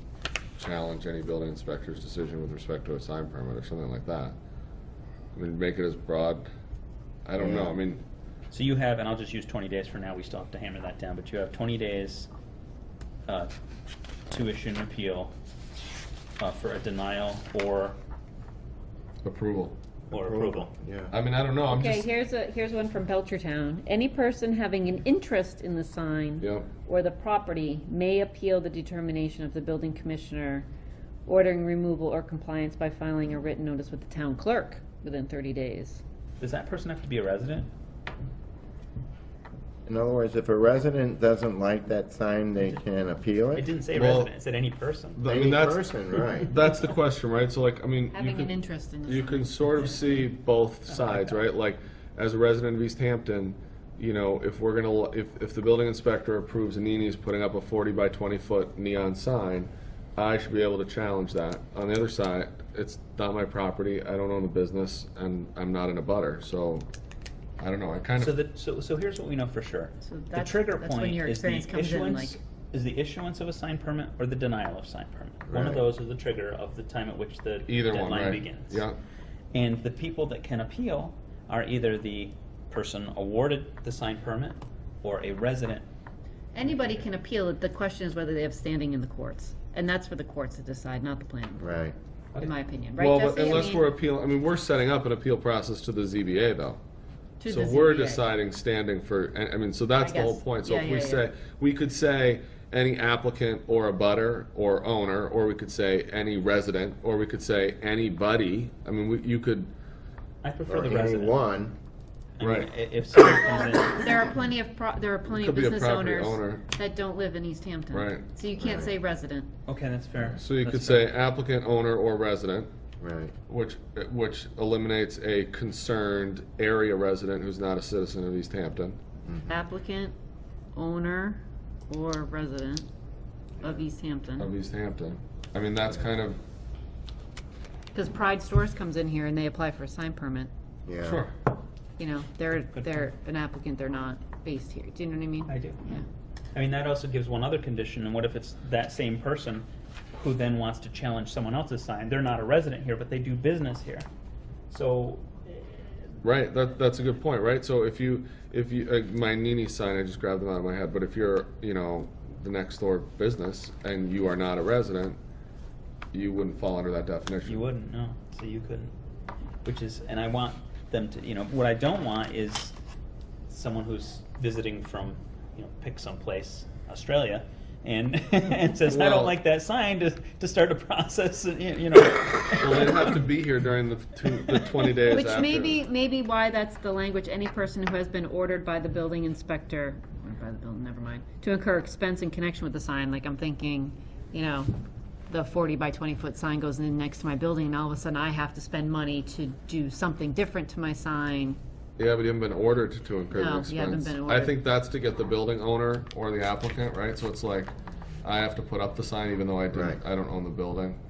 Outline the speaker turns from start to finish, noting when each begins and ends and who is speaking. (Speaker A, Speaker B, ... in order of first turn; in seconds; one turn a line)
Speaker A: 0.6-4.3
Speaker A: 5.3-6.5
Speaker A: 7.2-8.0
Speaker B: 7.4-7.8
Speaker C: 8.5-12.3
Speaker C: 14.3-15.3
Speaker C: 16.4-17.9
Speaker A: 19.2-19.7
Speaker C: 20.1-20.7
Speaker B: 20.1-21.1
Speaker A: 21.1-22.1
Speaker D: 21.7-30.6
Speaker A: 26.4-26.7
Speaker D: 31.2-36.0
Speaker C: 36.4-37.7
Speaker B: 39.9-43.6
Speaker C: 43.5-45.2
Speaker A: 43.9-44.3
Speaker A: 45.2-48.5
Speaker B: 45.2-46.5
Speaker D: 48.1-50.0
Speaker A: 49.0-66.9
Speaker C: 50.9-51.4
Speaker A: 67.6-68.3
Speaker C: 68.2-78.8
Speaker D: 70.0-72.4
Speaker B: 75.5-75.8
Speaker A: 77.7-79.0
Speaker C: 79.5-85.8
Speaker D: 86.5-91.8
Speaker B: 91.6-91.9
Speaker D: 92.3-93.9
Speaker A: 93.0-96.8
Speaker D: 97.4-98.3
Speaker A: 97.5-109.7
Speaker D: 100.0-101.2
Speaker C: 110.4-111.4
Speaker B: 110.7-111.8
Speaker C: 112.4-114.3
Speaker A: 112.4-112.7
Speaker D: 113.4-119.5
Speaker A: 115.3-116.6
Speaker A: 117.9-118.2
Speaker B: 118.6-118.9
Speaker C: 119.7-121.1
Speaker A: 120.4-122.7
Speaker B: 123.0-123.3
Speaker A: 123.5-129.0
Speaker B: 129.2-129.6
Speaker D: 129.5-130.1
Speaker D: 130.7-132.9
Speaker D: 133.6-134.5
Speaker A: 134.4-136.4
Speaker D: 137.9-140.5
Speaker B: 140.8-141.2
Speaker A: 141.0-141.3
Speaker D: 142.0-146.0
Speaker C: 145.5-145.8
Speaker C: 146.5-154.1
Speaker C: 154.7-156.0
Speaker A: 156.2-165.2
Speaker A: 166.1-167.7
Speaker C: 167.4-168.9
Speaker C: 169.6-172.7
Speaker C: 173.5-183.2
Speaker A: 178.9-179.3
Speaker A: 182.6-185.8
Speaker D: 184.9-194.7
Speaker D: 195.3-201.6
Speaker A: 202.0-207.7
Speaker D: 203.3-204.5
Speaker A: 208.2-211.0
Speaker B: 209.7-210.0